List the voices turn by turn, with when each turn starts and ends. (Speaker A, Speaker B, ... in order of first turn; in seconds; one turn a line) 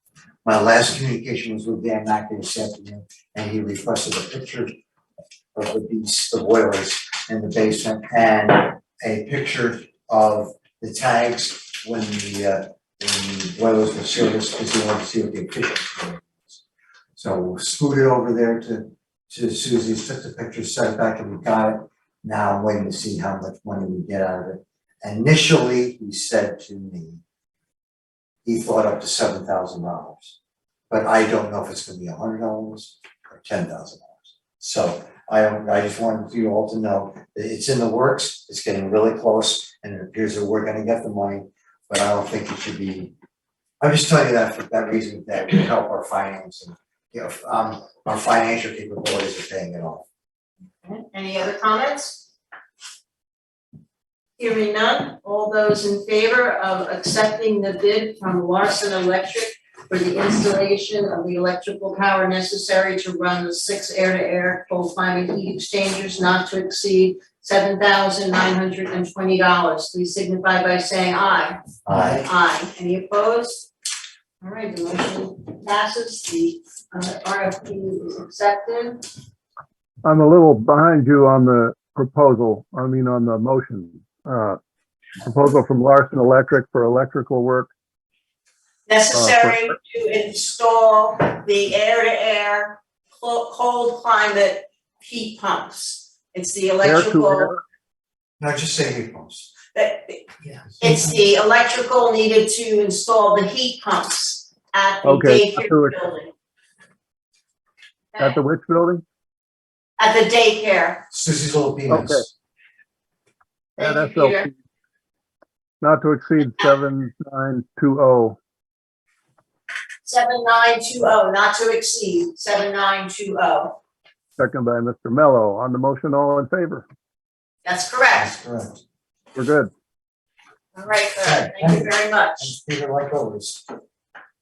Speaker A: 0.4-4.8
Speaker A: 5.5-16.6
Speaker A: 17.1-27.2
Speaker A: 28.4-30.4
Speaker A: 30.9-43.1
Speaker A: 43.8-50.0
Speaker B: 50.8-52.3
Speaker B: 54.4-73.7
Speaker A: 71.8-72.3
Speaker B: 74.4-79.0
Speaker C: 80.0-84.6
Speaker C: 85.2-87.7
Speaker B: 88.9-97.5
Speaker C: 89.1-89.7
Speaker C: 96.8-97.6
Speaker A: 98.4-99.5
Speaker B: 99.7-106.3
Speaker C: 105.0-106.1
Speaker C: 108.2-109.0
Speaker B: 110.0-111.1
Speaker A: 111.1-112.3
Speaker C: 111.9-112.2
Speaker B: 113.8-114.5
Speaker C: 113.8-114.5
Speaker C: 115.8-118.4
Speaker B: 116.4-116.7
Speaker B: 120.0-123.8
Speaker C: 124.4-126.8
Speaker B: 127.6-128.3
Speaker A: 128.1-128.8
Speaker C: 129.3-129.7
Speaker B: 130.8-132.5
Speaker A: 131.1-133.6